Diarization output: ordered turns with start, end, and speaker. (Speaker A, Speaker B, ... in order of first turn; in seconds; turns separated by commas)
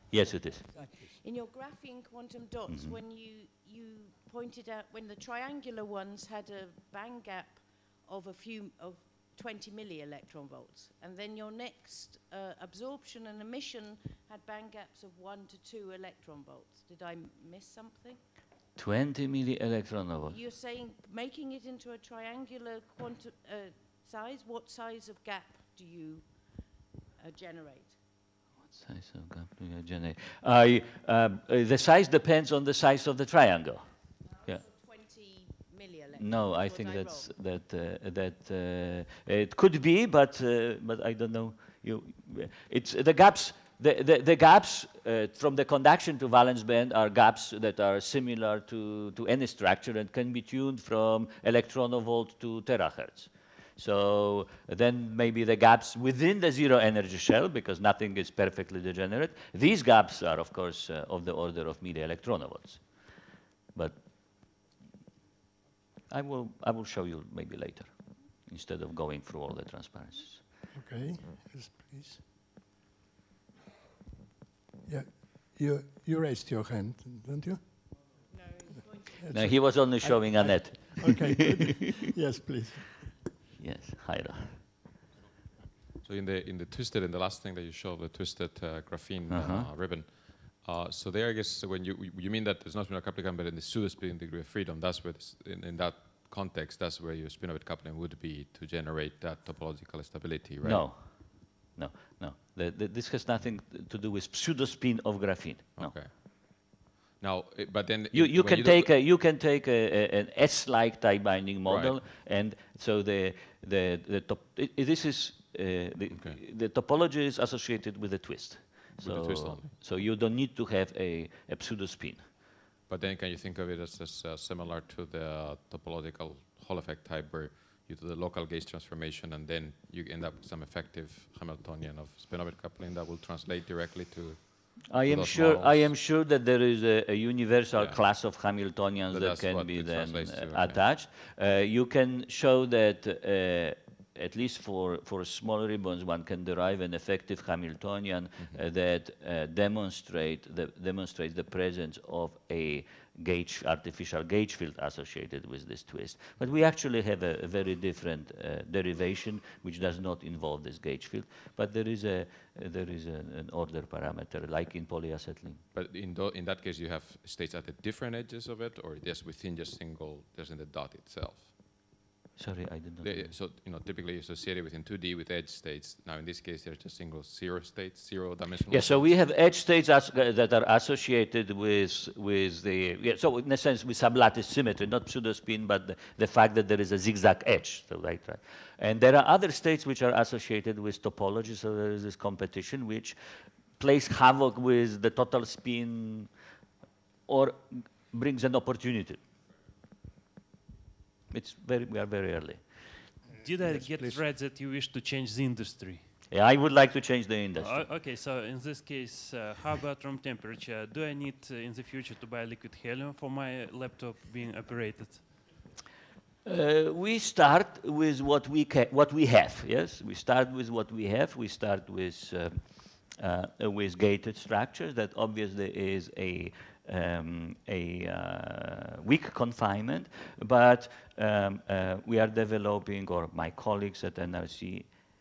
Speaker A: 0.1-0.6, Speaker B: 0.7-18.2, Speaker A: 2.7-3.0, Speaker A: 18.8-20.4, Speaker B: 20.3-26.3, Speaker B: 27.2-28.0, Speaker A: 28.7-33.9, Speaker B: 34.2-37.3, Speaker A: 36.1-62.8, Speaker A: 66.1-67.9, Speaker A: 68.5-70.4, Speaker C: 70.7-72.2, Speaker C: 74.8-77.6, Speaker B: 78.3-79.1, Speaker C: 79.2-82.9, Speaker A: 79.3-81.8, Speaker A: 83.6-84.6, Speaker D: 86.0-101.0, Speaker A: 89.3-89.7, Speaker A: 100.6-106.0, Speaker D: 105.8-108.9, Speaker A: 108.1-122.3, Speaker D: 111.7-112.0, Speaker D: 119.0-119.7, Speaker D: 122.9-136.0, Speaker A: 134.9-165.6, Speaker D: 137.8-138.0, Speaker D: 139.1-140.8, Speaker D: 165.7-171.5, Speaker A: 172.4-173.4, Speaker D: 173.0-179.2, Speaker A: 178.7-193.2, Speaker A: 193.8-196.3, Speaker A: 197.3-199.2, Speaker A: 201.3-202.6, Speaker E: 203.4-206.1, Speaker C: 203.5-204.2, Speaker A: 206.3-207.9, Speaker E: 207.6-215.4, Speaker A: 216.4-234.9